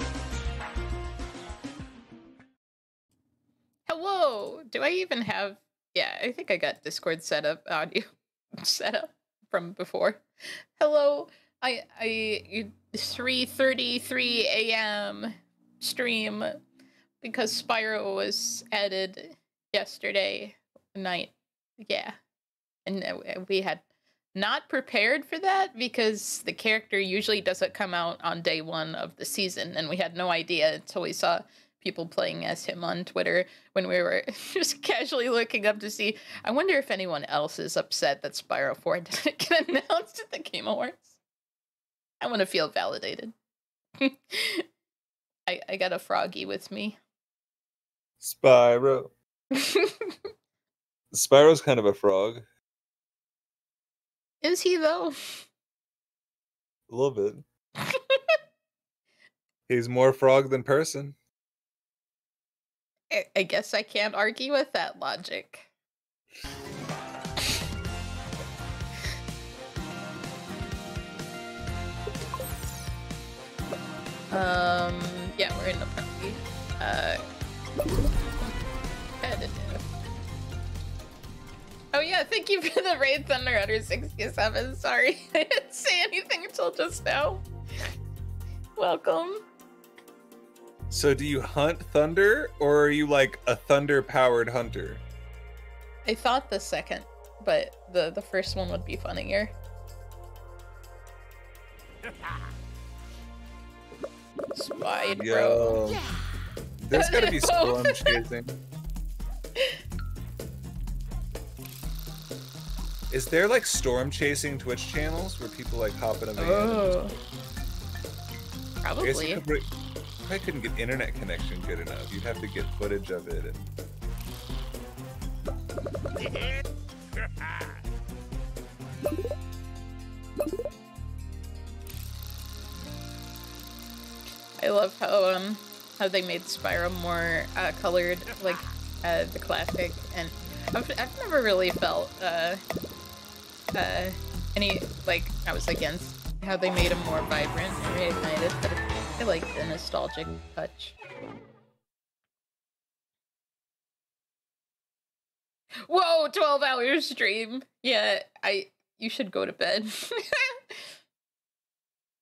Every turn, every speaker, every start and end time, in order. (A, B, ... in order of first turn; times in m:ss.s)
0:03.9-0:16.6 A
0:17.2-0:22.2 A
0:22.9-0:23.8 A
0:24.4-0:41.2 A
0:42.2-0:43.3 A
0:44.0-0:44.7 A
0:45.5-0:47.0 A
0:48.2-0:49.1 B
0:49.5-0:50.2 A
0:51.1-0:52.5 B
0:54.4-0:55.5 A
0:56.9-0:57.4 B
0:57.9-0:58.2 A
0:59.7-1:01.2 B
1:03.1-1:05.7 A
1:14.3-1:17.2 A
1:19.2-1:19.8 A
1:21.9-1:27.4 A
1:28.8-1:29.4 A
1:30.9-1:35.0 B
1:36.0-1:39.5 A
1:44.5-1:45.8 A
1:45.1-1:46.1 B
1:46.8-1:48.6 B
1:46.9-1:48.2 A
1:49.6-1:49.8 A
1:53.1-1:56.9 B
1:56.4-1:57.1 A
1:58.8-1:59.4 A
1:59.0-1:59.7 B
2:00.2-2:03.7 B
2:14.6-2:22.6 A
2:23.7-2:31.0 A
2:35.8-2:40.8 A